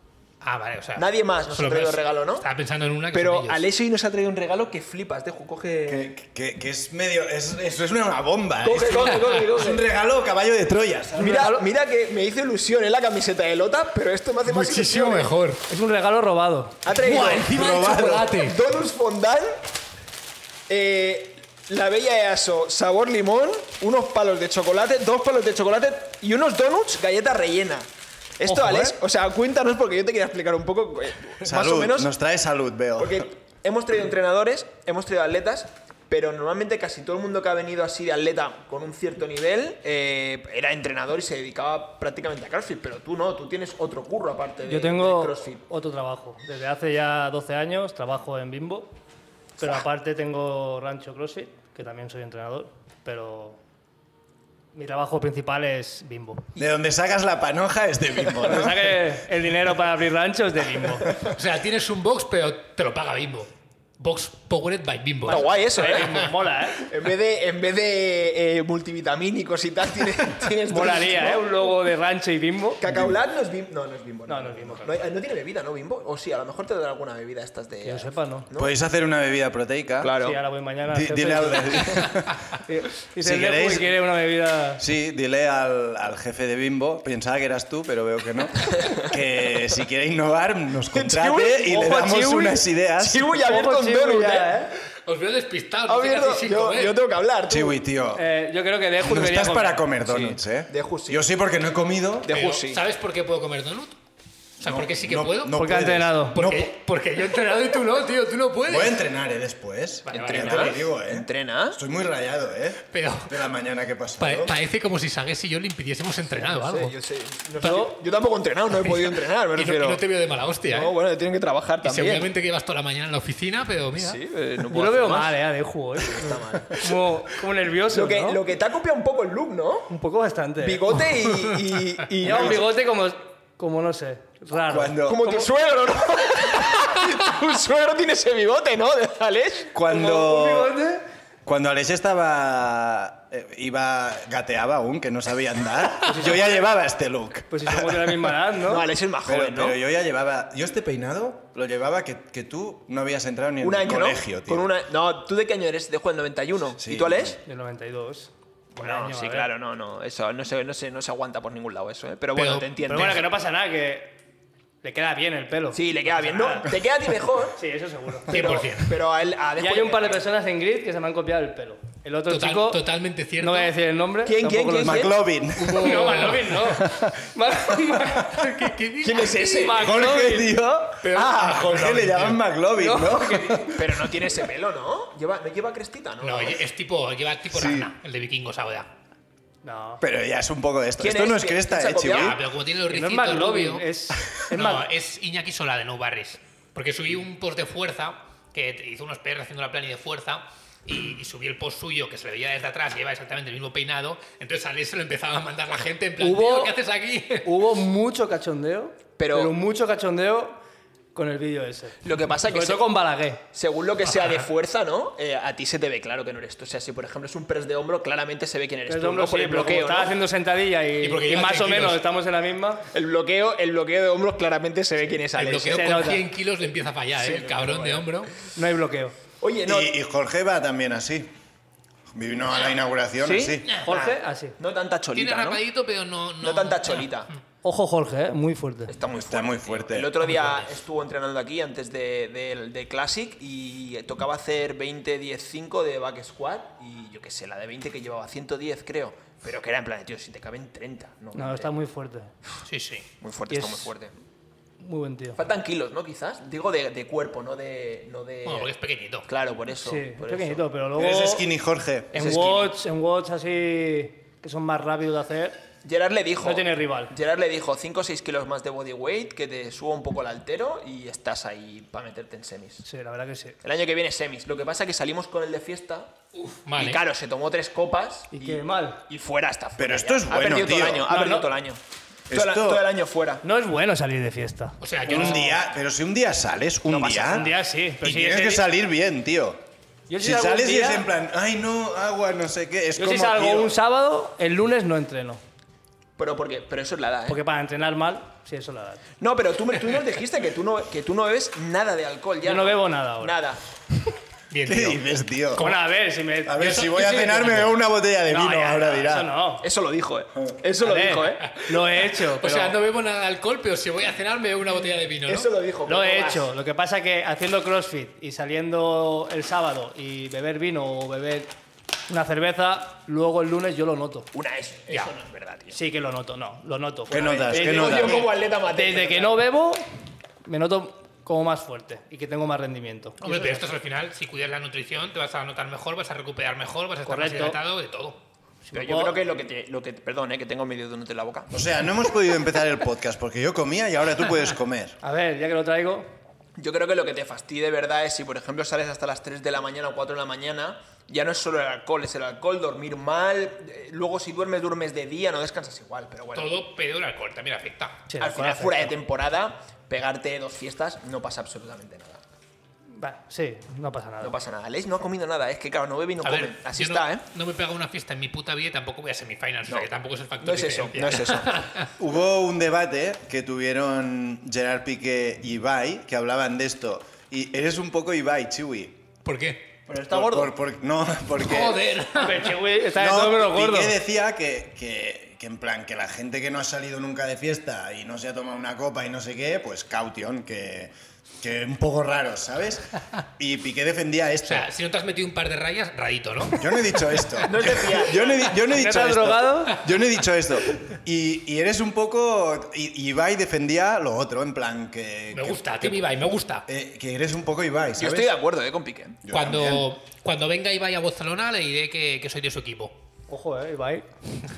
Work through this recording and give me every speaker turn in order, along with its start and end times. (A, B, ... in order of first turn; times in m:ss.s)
0:00.4-0:03.6 A
0:01.0-0:02.4 B
0:03.1-0:06.0 B
0:05.9-0:11.4 C
0:08.6-0:09.8 B
0:08.8-0:09.5 A
0:11.2-0:15.3 B
0:11.2-0:11.6 D
0:14.4-0:15.6 A
0:15.7-0:16.8 D
0:16.8-0:19.6 B
0:16.9-0:18.6 A
0:17.5-0:18.3 C
0:20.7-0:32.1 B
0:28.5-0:29.0 C
0:31.4-0:33.3 C
0:33.0-0:45.6 B
0:44.6-0:48.9 D
0:49.6-0:53.6 D
0:54.7-0:56.5 D
0:56.6-0:59.1 C
0:58.4-1:01.1 D
1:01.2-1:06.1 A
1:05.2-1:11.7 B
1:05.3-1:06.9 D
1:10.7-1:12.8 D
1:12.8-1:18.7 B
1:12.9-1:13.1 C
1:14.3-1:15.0 D
1:17.8-1:18.5 D
1:18.5-1:20.2 C
1:20.0-1:20.4 B
1:20.2-1:22.1 D
1:20.9-1:22.4 C
1:22.6-1:24.8 D
1:23.2-1:24.0 C
1:24.8-1:33.4 C
1:30.9-1:34.6 B
1:31.7-1:32.2 D
1:33.4-1:34.7 D
1:35.0-1:37.0 A
1:35.9-1:37.8 B
1:37.5-1:38.2 C
1:38.1-1:39.9 D
1:39.0-1:42.4 C
1:40.0-1:41.2 B
1:42.2-1:42.8 B
1:42.3-1:44.0 A
1:44.6-1:45.6 A
1:44.6-1:46.7 C
1:45.5-1:46.4 D
1:46.3-1:49.0 A
1:48.7-1:54.5 C
1:50.1-1:50.8 A
1:50.1-1:51.8 B
1:52.9-1:53.4 A
1:54.2-1:57.0 A
1:56.4-2:00.0 B
1:57.6-1:57.9 A
1:57.6-1:57.9 D
1:58.8-2:00.9 A
2:00.7-2:02.3 B
2:01.8-2:04.2 A
2:04.0-2:05.4 B
2:04.7-2:08.4 D
2:06.0-2:07.0 B
2:07.9-2:09.9 B
2:09.9-2:10.8 D
2:10.6-2:12.7 B
2:12.2-2:15.4 D
2:12.3-2:12.6 C
2:14.7-2:15.4 C
2:15.0-2:19.7 B
2:19.7-2:20.8 C
2:19.8-2:21.0 D
2:21.4-2:28.4 C
2:26.0-2:26.6 D
2:27.5-2:28.9 D
2:28.6-2:29.8 B
2:29.2-2:34.7 C
2:33.6-2:37.4 B
2:36.8-2:37.4 C
2:37.4-2:39.5 D
2:38.8-2:43.2 B
2:42.3-2:43.2 A
2:42.8-2:44.1 D
2:44.8-2:46.7 D
2:45.7-2:47.6 B
2:47.6-2:48.3 D
2:48.3-2:49.0 A
2:48.3-2:50.2 B
2:49.6-2:52.8 D
2:52.3-2:53.7 A
2:53.4-2:58.5 D
2:54.2-2:55.2 B
2:54.8-2:57.2 C
2:55.6-2:56.7 A
2:57.7-2:58.4 C
2:58.2-2:59.5 A
2:59.0-3:00.0 B
2:59.3-3:00.6 D
2:59.7-3:04.1 C
3:01.0-3:02.4 A
3:02.8-3:03.8 D
3:03.7-3:06.6 B
3:06.2-3:08.9 A
3:07.5-3:07.9 C
3:09.6-3:10.0 D
3:10.0-3:12.4 C
3:11.0-3:12.4 B
3:12.0-3:13.8 A
3:12.9-3:14.9 D
3:14.4-3:27.5 A
3:26.2-3:26.7 D
3:27.4-3:30.6 D
3:29.2-3:29.5 B
3:31.1-3:33.4 D
3:32.0-3:32.9 B
3:33.5-3:40.2 B
3:34.0-3:34.5 A
3:38.9-3:42.8 D
3:41.0-3:42.0 A
3:42.9-3:46.0 B
3:45.3-3:48.3 A
3:45.6-3:46.3 D
3:47.2-3:48.1 B
3:48.5-3:49.1 D
3:49.4-3:49.9 B
3:49.6-3:51.3 C
3:52.1-3:53.7 C
3:53.2-3:55.6 B
3:53.8-3:54.6 D
3:55.1-3:57.4 A
3:56.4-3:57.3 B
3:57.6-3:58.9 D
3:58.9-4:11.7 B
3:59.2-4:00.2 C
4:00.2-4:00.7 A
4:11.3-4:12.3 D
4:12.6-4:13.0 A
4:13.2-4:14.1 B
4:13.5-4:13.9 D
4:14.8-4:15.4 D
4:15.4-4:18.7 B
4:18.4-4:19.3 A
4:19.3-4:20.6 B
4:19.8-4:21.5 D
4:21.0-4:22.5 C
4:22.1-4:25.6 D
4:22.1-4:22.7 B
4:25.8-4:32.8 B
4:26.4-4:27.1 D
4:32.8-4:33.6 D
4:33.6-4:36.1 B
4:36.3-4:37.0 A
4:36.8-4:43.4 B
4:38.3-4:39.0 D
4:39.8-4:41.1 C
4:41.1-4:41.5 D
4:42.3-4:42.8 C
4:43.4-4:45.6 D
4:44.8-4:45.6 A
4:45.1-4:47.5 C
4:46.9-4:47.5 B
4:47.3-4:48.6 D
4:48.0-4:49.6 C
4:50.1-4:51.1 D
4:50.2-4:53.8 C
4:52.9-4:55.4 D
4:56.2-4:57.4 B
4:57.3-4:59.0 D
4:59.2-5:03.6 B
5:02.4-5:03.4 D
5:04.5-5:05.9 A
5:04.6-5:05.6 C
5:05.6-5:06.6 D
5:06.4-5:09.3 C
5:06.5-5:07.8 A
5:08.3-5:09.6 D
5:09.6-5:11.6 B
5:10.8-5:12.8 D
5:11.5-5:15.5 A
5:15.3-5:16.5 B
5:15.9-5:21.5 D
5:22.1-5:24.3 D
5:24.3-5:25.8 B
5:25.7-5:29.8 D
5:27.1-5:28.3 C
5:27.5-5:29.4 B
5:30.4-5:33.7 D
5:33.2-5:38.2 A
5:37.0-5:37.6 D
5:38.6-5:39.2 D
5:38.7-5:41.5 B
5:41.5-5:45.0 C
5:45.0-5:46.1 D
5:46.6-5:56.6 B
5:56.3-5:58.0 A
5:58.1-5:58.9 D
5:58.2-6:02.2 B
6:02.9-6:04.4 D
6:04.2-6:07.2 B
6:06.2-6:11.9 A
6:09.7-6:11.6 B
6:12.0-6:19.0 C
6:19.2-6:19.7 A
6:19.9-6:20.5 B
6:20.1-6:22.0 C
6:21.4-6:22.5 A
6:22.1-6:24.0 D
6:22.9-6:32.8 C
6:33.4-6:34.7 C
6:34.4-6:37.5 A
6:36.5-6:46.0 C
6:37.5-6:38.6 B
6:38.7-6:39.8 D
6:45.3-6:46.6 A
6:46.7-6:48.3 C
6:48.0-6:49.2 B
6:49.2-6:49.9 C
6:49.3-6:52.9 A
6:53.3-6:54.1 D